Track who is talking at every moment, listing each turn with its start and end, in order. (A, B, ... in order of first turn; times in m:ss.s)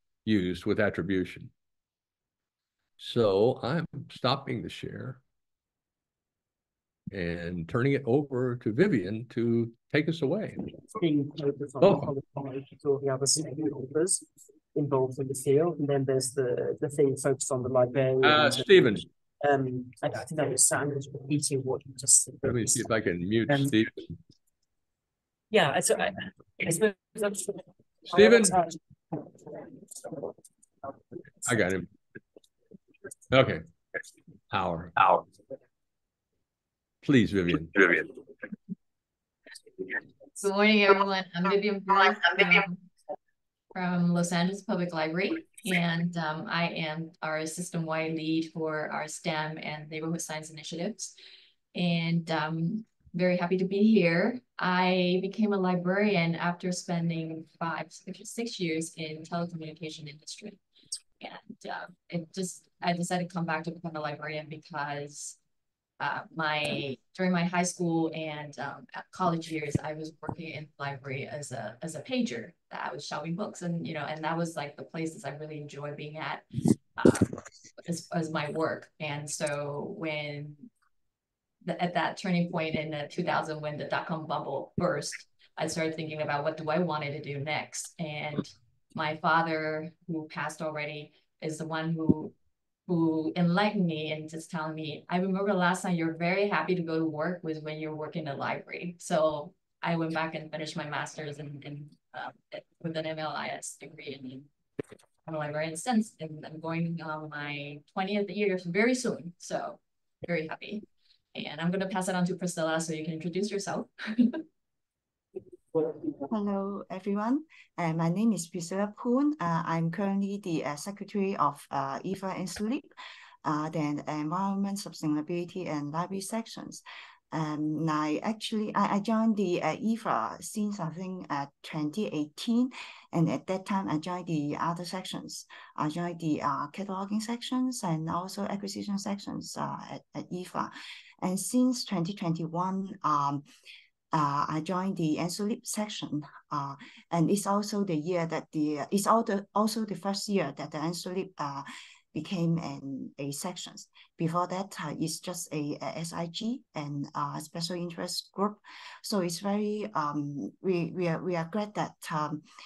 0:00.2-0:01.5 A
0:03.0-0:05.2 A
0:07.1-0:10.6 A
0:10.9-0:22.8 B
0:11.8-0:12.1 A
0:18.2-0:19.0 A
0:22.4-0:24.0 A
0:23.5-0:23.8 B
0:25.5-0:29.7 B
0:28.1-0:28.5 A
0:31.4-0:31.9 A
0:33.3-0:33.6 A
0:34.5-0:35.2 A
0:37.0-0:38.1 A
0:40.4-0:42.8 C
0:43.7-0:51.1 C
0:51.7-1:00.6 C
1:01.2-1:05.4 C
1:06.0-1:16.4 C
1:17.0-1:20.7 C
1:21.6-1:32.3 C
1:32.9-1:44.5 C
1:45.2-1:54.4 C
1:56.2-2:02.9 D
2:03.4-2:23.4 D
2:24.1-2:42.4 D